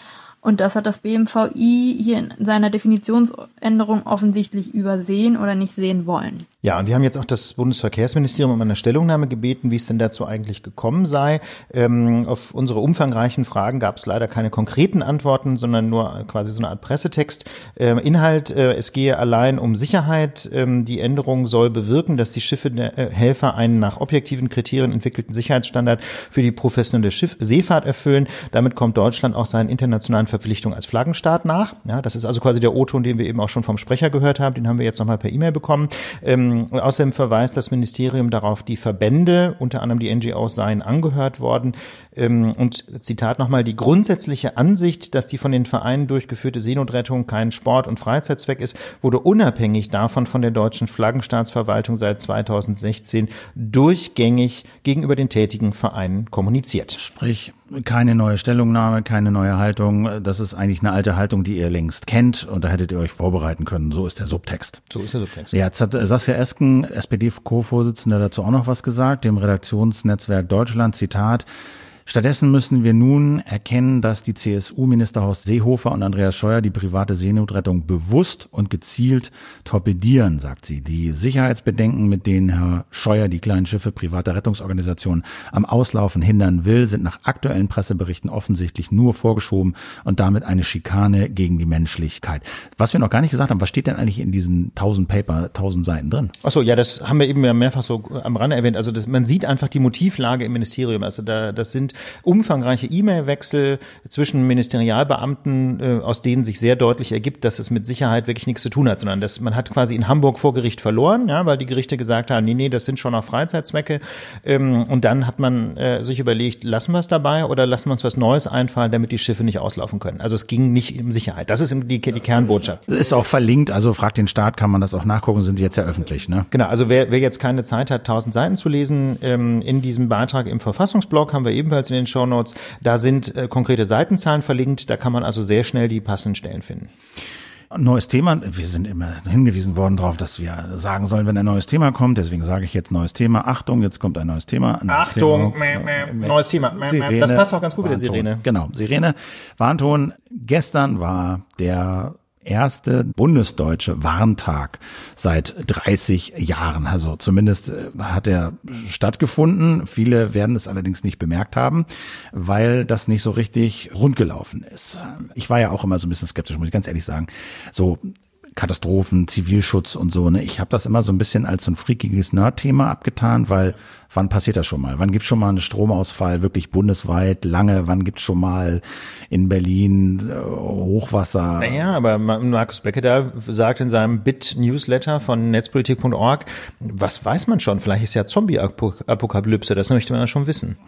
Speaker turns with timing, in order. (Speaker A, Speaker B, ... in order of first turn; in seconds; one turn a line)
Speaker A: 0.4-6.5
Speaker B: 6.6-57.0
Speaker C: 57.0-64.8
Speaker B: 64.9-65.5
Speaker C: 65.5-71.5
Speaker C: 72.0-96.3
Speaker B: 96.4-122.8
Speaker C: 122.9-126.5
Speaker B: 126.5-136.9
Speaker C: 137.7-181.8
Speaker B: 144.9-148.4
Speaker B: 181.6-190.8